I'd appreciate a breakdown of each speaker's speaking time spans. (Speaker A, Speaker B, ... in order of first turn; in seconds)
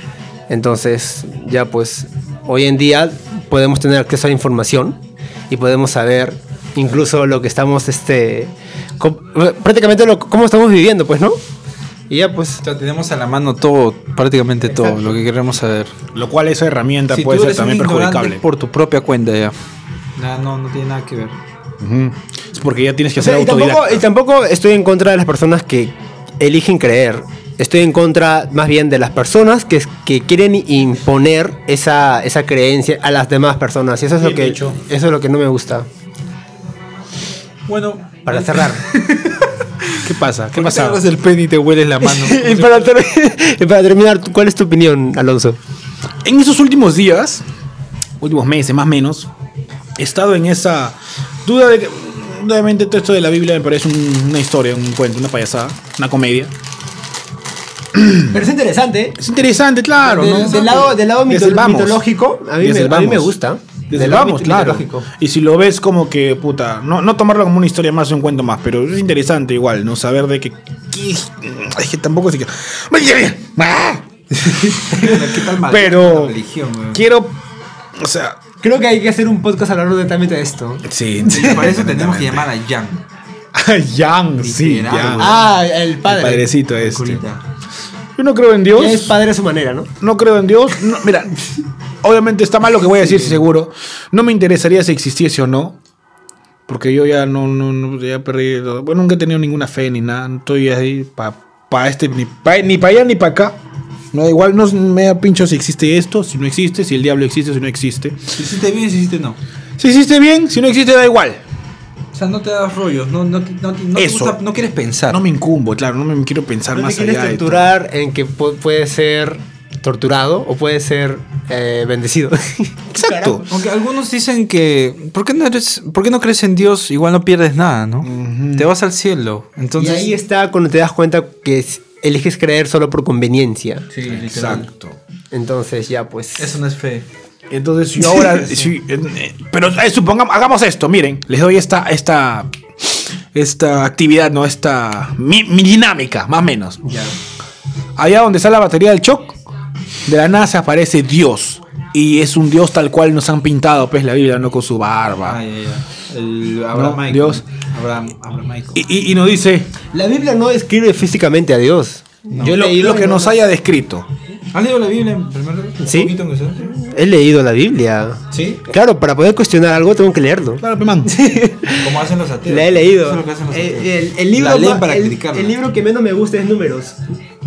Speaker A: 0.5-11.4, 12.1-12.6, 23.2-35.9, 38.2-38.8, 42.0-45.6, 58.3-59.2, 60.0-65.1, 78.6-80.8, 84.9-86.5, 88.7-89.9, 116.7-123.4, 129.8-133.9, 135.3-136.6, 159.9-163.4, 165.8-171.9, 172.4-177.0
Speaker B: 12.6-15.9, 17.1-19.6, 20.1-21.4, 37.7-40.0, 40.5-42.9, 74.9-77.0, 81.2-83.0, 84.4-85.5, 86.8-87.4, 108.3-109.4, 112.1-115.2, 123.4-130.1, 133.9-134.7, 136.4-137.1, 138.0-138.7, 155.2-158.8, 164.5-166.7, 168.3-168.6, 171.8-175.6
Speaker C: 16.1-18.4, 21.8-24.0, 34.2-34.8, 40.0-41.0, 46.2-47.4, 48.2-49.3, 50.0-56.5, 58.0-58.3, 59.2-62.0, 62.6-63.3, 63.9-76.3, 76.9-77.4, 78.0-78.4, 80.9-82.5, 83.5-85.5, 86.0-87.2, 88.2-89.1, 90.0-91.3, 92.0-95.8, 96.7-103.6, 104.1-108.2, 109.8-111.4, 114.0-114.4, 115.1-117.7, 122.9-123.4, 128.0-128.7, 134.0-134.9, 137.5-146.8, 148.0-149.4, 150.1-155.4, 156.7-157.4, 158.7-159.7, 162.4-164.1, 170.6-171.1